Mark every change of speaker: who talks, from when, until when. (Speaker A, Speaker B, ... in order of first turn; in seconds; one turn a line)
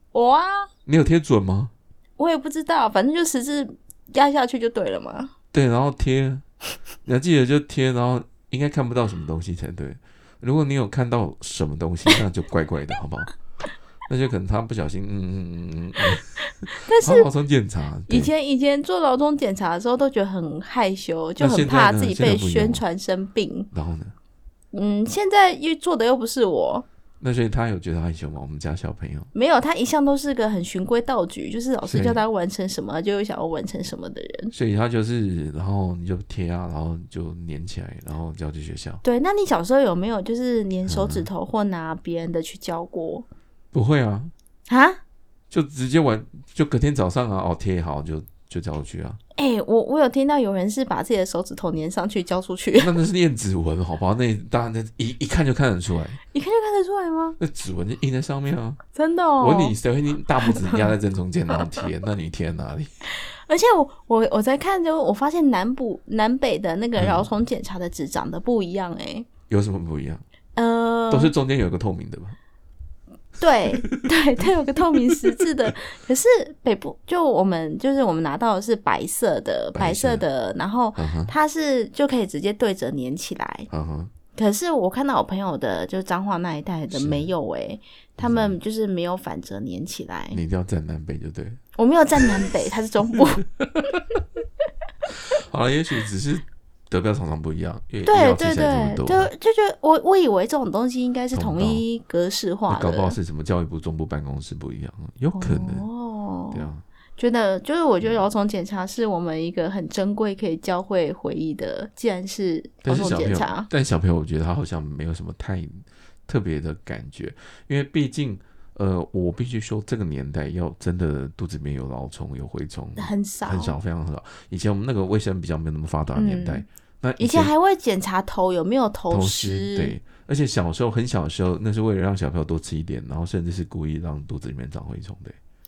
Speaker A: 0.1-0.7
Speaker B: 0.8-1.7
Speaker A: 2.2-5.3
Speaker B: 5.5-6.4
Speaker B: 7.0-13.3
Speaker B: 14.1-18.3
Speaker A: 16.8-17.3
Speaker A: 18.1-23.7
Speaker B: 21.4-22.8
Speaker B: 23.7-24.1
Speaker A: 24.7-26.8
Speaker B: 27.2-29.3
Speaker A: 29.3-34.5
Speaker B: 31.9-32.2
Speaker B: 34.5-39.0
Speaker A: 39.0-43.2
Speaker B: 40.9-41.3
Speaker B: 43.7-44.3
Speaker A: 44.7-45.0
Speaker B: 45.5-49.2
Speaker A: 49.3-52.9
Speaker B: 52.8-56.2
Speaker A: 56.3-57.4
Speaker B: 57.4-58.8
Speaker A: 58.9-59.7
Speaker B: 59.4-62.9
Speaker A: 60.4-60.9
Speaker A: 63.2-69.3
Speaker B: 67.0-67.2
Speaker B: 69.5-70.2
Speaker A: 70.5-71.3
Speaker B: 71.1-72.4
Speaker A: 73.4-83.7
Speaker B: 79.7-80.2
Speaker B: 81.0-81.3
Speaker B: 83.7-84.1
Speaker A: 84.3-90.4
Speaker B: 86.9-87.3
Speaker B: 88.2-88.6
Speaker B: 90.3-91.6
Speaker A: 91.8-93.4
Speaker B: 93.6-93.8
Speaker B: 95.2-99.3
Speaker A: 98.0-103.2
Speaker B: 101.3-101.8
Speaker B: 102.7-105.8
Speaker A: 105.4-113.7
Speaker B: 106.5-106.8
Speaker B: 112.8-127.5
Speaker A: 123.0-123.8
Speaker A: 126.1-126.6
Speaker A: 127.2-129.9
Speaker B: 129.1-135.4